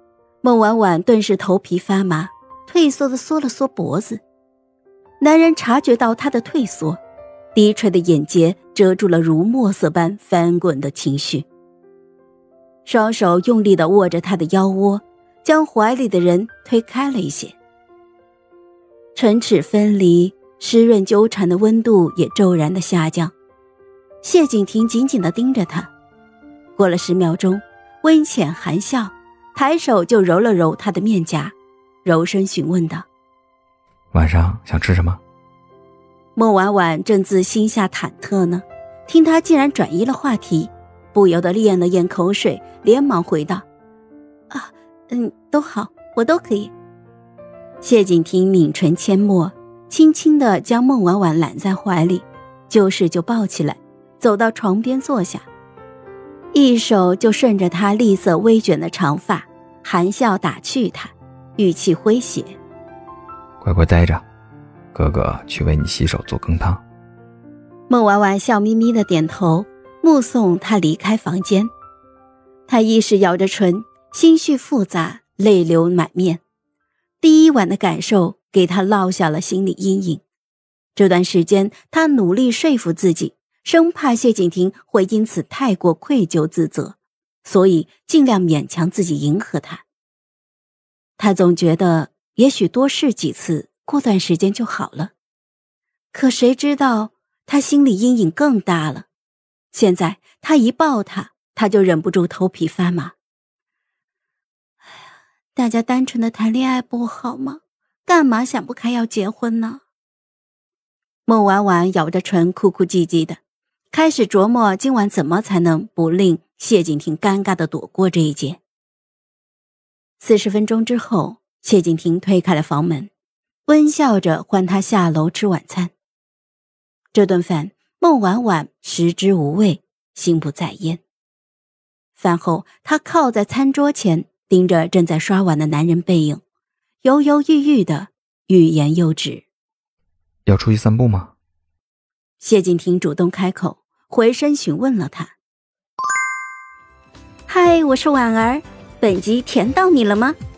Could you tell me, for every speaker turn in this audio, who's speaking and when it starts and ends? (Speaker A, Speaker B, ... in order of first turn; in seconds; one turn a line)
Speaker A: 0.4-4.2
Speaker A: 5.2-7.0
Speaker A: 7.5-11.5
Speaker A: 12.8-17.6
Speaker A: 19.1-23.3
Speaker A: 24.2-25.9
Speaker A: 26.8-31.5
Speaker A: 32.0-33.0
Speaker B: 34.1-35.2
Speaker A: 36.4-43.6
Speaker A: 44.5-46.7
Speaker A: 47.8-55.5
Speaker A: 56.5-62.6
Speaker B: 63.6-64.2
Speaker B: 64.9-66.8
Speaker A: 67.9-71.7
Speaker A: 72.7-76.4
Speaker A: 77.2-80.2
Speaker A: 81.0-89.8
Speaker A: 91.2-95.1
Speaker A: 96.1-99.1
Speaker A: 99.7-103.1
Speaker A: 105.5-109.8
Speaker A: 111.3-113.4
Speaker A: 113.9-118.6
Speaker A: 120.2-123.1
Speaker A: 123.7-125.9
Speaker A: 127.1-131.0
Speaker A: 132.2-136.4
Speaker A: 137.0-139.4
Speaker B: 140.5-141.3
Speaker A: 142.4-145.3
Speaker A: 147.5-150.4